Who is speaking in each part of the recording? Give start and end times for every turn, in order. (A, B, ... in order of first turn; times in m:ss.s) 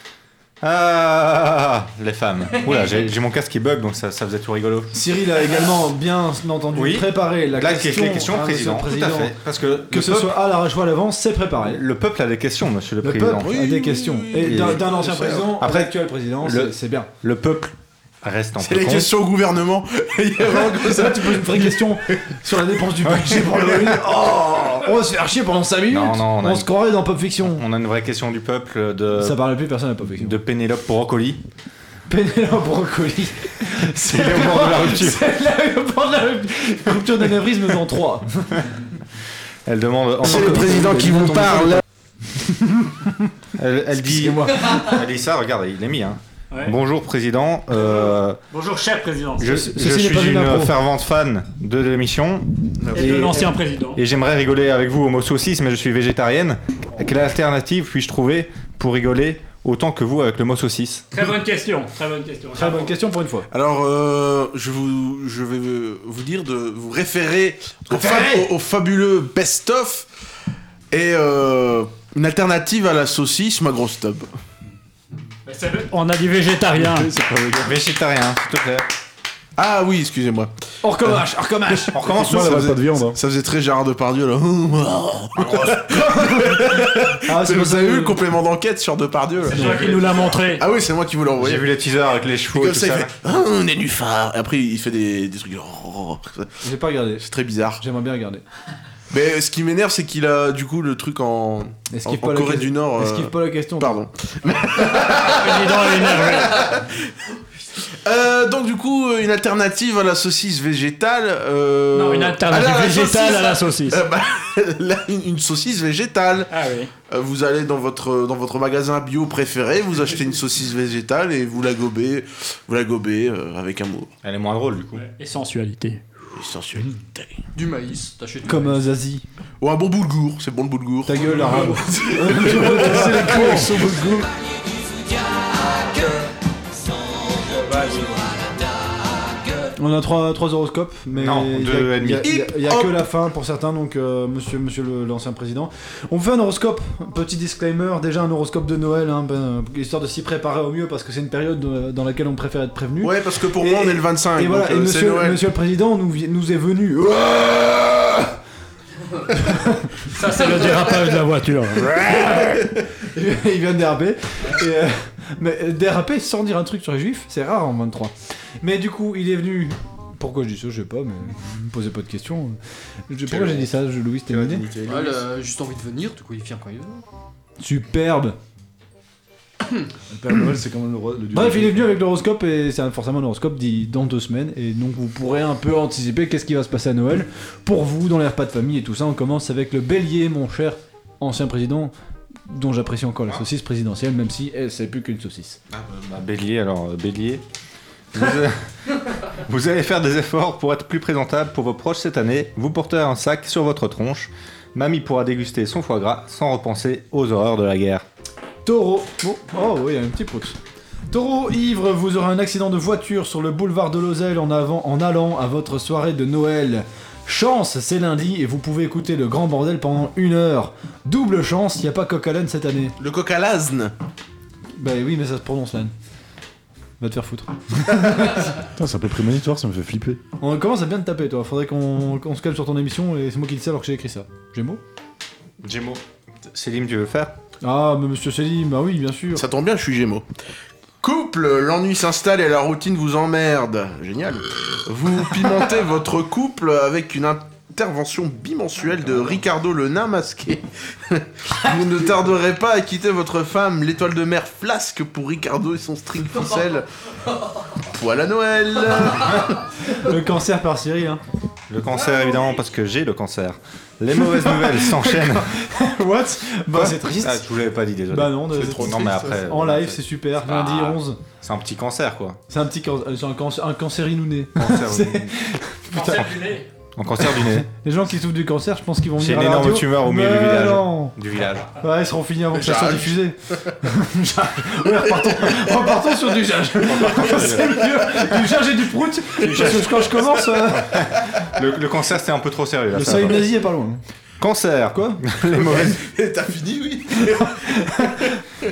0:00.6-0:04.9 A
0:04.9-0:09.3 B
0:06.7-0:10.4 A
0:09.9-0:11.8 B
0:11.6-0:13.5 A
0:13.0-0:17.1 B
0:13.4-0:15.5 C
0:14.3-0:19.1 A
0:18.6-0:21.8 C
0:20.8-0:27.6 B
0:23.1-0:23.7 A
0:25.9-0:26.7 A
0:27.4-0:29.5 A
0:29.1-0:30.4 B
0:30.2-0:31.4 A
0:32.1-0:38.7 B
0:34.0-0:35.2 A
0:39.7-0:40.8 A
0:40.2-0:41.8 C
0:40.2-0:41.8 B
0:42.6-0:43.1 B
0:43.6-0:48.4 A
0:44.1-0:44.8 B
0:48.5-0:49.5 D
0:49.4-1:01.0 A
0:49.4-0:50.7 B
0:52.8-0:53.2 C
0:52.9-0:54.0 D
1:01.1-1:02.9 D
1:02.5-1:03.5 B
1:03.5-1:10.1 C
1:07.9-1:08.4 B
1:10.9-1:14.3 C
1:15.4-1:17.1 D
1:16.8-1:17.8 E
1:17.6-1:18.8 A
1:19.6-1:20.5 C
1:20.8-1:23.1 B
1:21.9-1:22.7 A
1:22.0-1:23.2 E
1:23.2-1:29.9 C
1:25.4-1:25.8 A
1:25.9-1:28.2 B
1:29.5-1:30.2 B
1:29.5-1:30.6 D
1:29.6-1:30.4 A
1:30.4-1:31.8 C
1:31.4-1:33.1 A
1:32.5-1:36.5 C
1:36.6-1:37.2 B
1:37.2-1:37.8 C
1:37.8-1:38.4 B
1:39.1-1:46.9 C
1:41.9-1:44.0 B
1:44.8-1:46.8 D
1:48.0-1:56.5 C
1:51.9-1:54.0 D
1:56.5-1:56.9 D
1:57.1-2:04.1 C
2:04.2-2:05.0 A
2:04.9-2:06.0 D
2:06.3-2:07.4 C
2:07.5-2:08.8 F
2:08.4-2:09.2 B
2:09.6-2:13.9 C
2:11.0-2:14.2 B
2:17.7-2:18.1 D
2:19.8-2:38.3 B
2:21.1-2:22.3 A
2:22.2-2:23.0 C
2:33.0-2:35.4 C
2:39.3-2:39.9 B
2:40.1-2:42.6 D
2:43.1-2:52.6 B
2:53.1-2:54.6 B
2:53.3-2:53.7 C
2:54.2-2:55.2 C
2:54.8-2:57.0 F
2:57.6-2:58.4 B
3:00.1-3:02.0 E
3:01.3-3:11.9 B
3:12.5-3:15.6 B
3:15.7-3:17.4 A
3:18.1-3:18.6 A
3:19.3-3:28.0 A
3:28.6-3:30.6 B
3:31.1-3:42.9 B
3:43.0-3:43.9 C
3:44.8-3:45.9 B
3:47.0-3:48.5 B
3:48.6-3:50.2 E
3:50.4-3:54.8 B
3:55.6-3:57.3 A
3:57.6-3:59.4 B
3:59.3-4:00.2 C
4:01.0-4:16.8 C
4:17.9-4:19.6 C
4:19.9-4:21.2 B
4:21.7-4:25.5 A
4:24.1-4:27.4 B
4:26.7-4:32.4 A
4:28.1-4:31.2 B
4:28.5-4:29.5 C
4:32.5-4:36.3 B
4:34.6-4:35.4 A
4:35.9-4:36.7 D
4:36.0-4:36.3 A
4:37.0-4:37.7 A
4:37.3-4:41.2 B
4:39.2-4:41.7 A
4:41.8-4:51.1 B
4:42.5-4:43.7 C
4:47.0-4:47.7 C
4:47.0-4:47.7 A
4:49.4-4:49.8 A
4:50.9-4:53.5 A
4:52.9-4:54.0 B
4:54.4-4:56.0 A
4:54.9-4:55.2 B
4:55.5-4:58.4 C